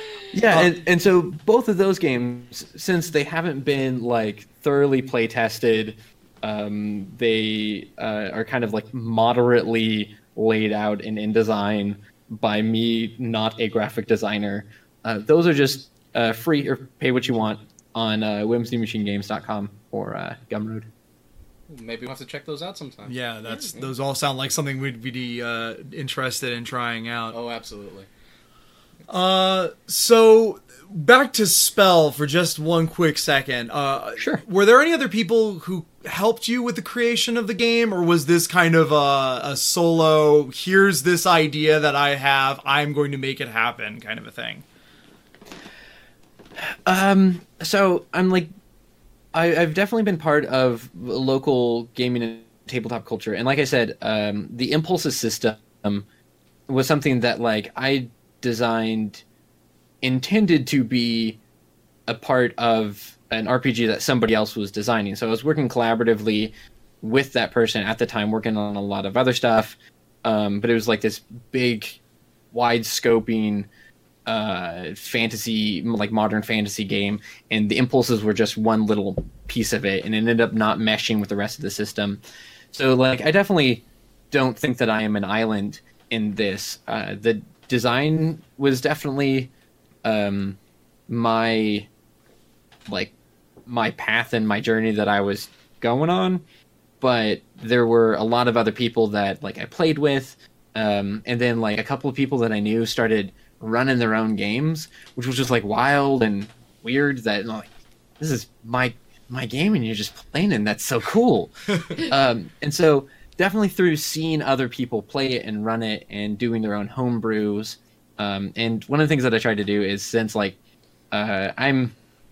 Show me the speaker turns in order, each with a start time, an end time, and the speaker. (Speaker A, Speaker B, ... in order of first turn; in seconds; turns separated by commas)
Speaker A: 0.3-20.9, Speaker B: 21.7-23.9, Speaker C: 23.1-27.4, Speaker B: 27.3-28.1, Speaker C: 29.1-44.6, Speaker A: 34.2-34.4, Speaker A: 46.7-48.5, Speaker A: 49.3-56.1, Speaker A: 56.7-59.2, Speaker A: 60.0-61.4, Speaker A: 62.1-72.0, Speaker A: 72.5-73.7, Speaker A: 74.3-82.2, Speaker A: 82.7-89.5, Speaker A: 90.0-90.6, Speaker A: 91.1-91.9, Speaker A: 92.9-93.1, Speaker A: 93.7-96.4, Speaker A: 97.0-107.7, Speaker A: 108.2-120.6, Speaker A: 121.1-122.0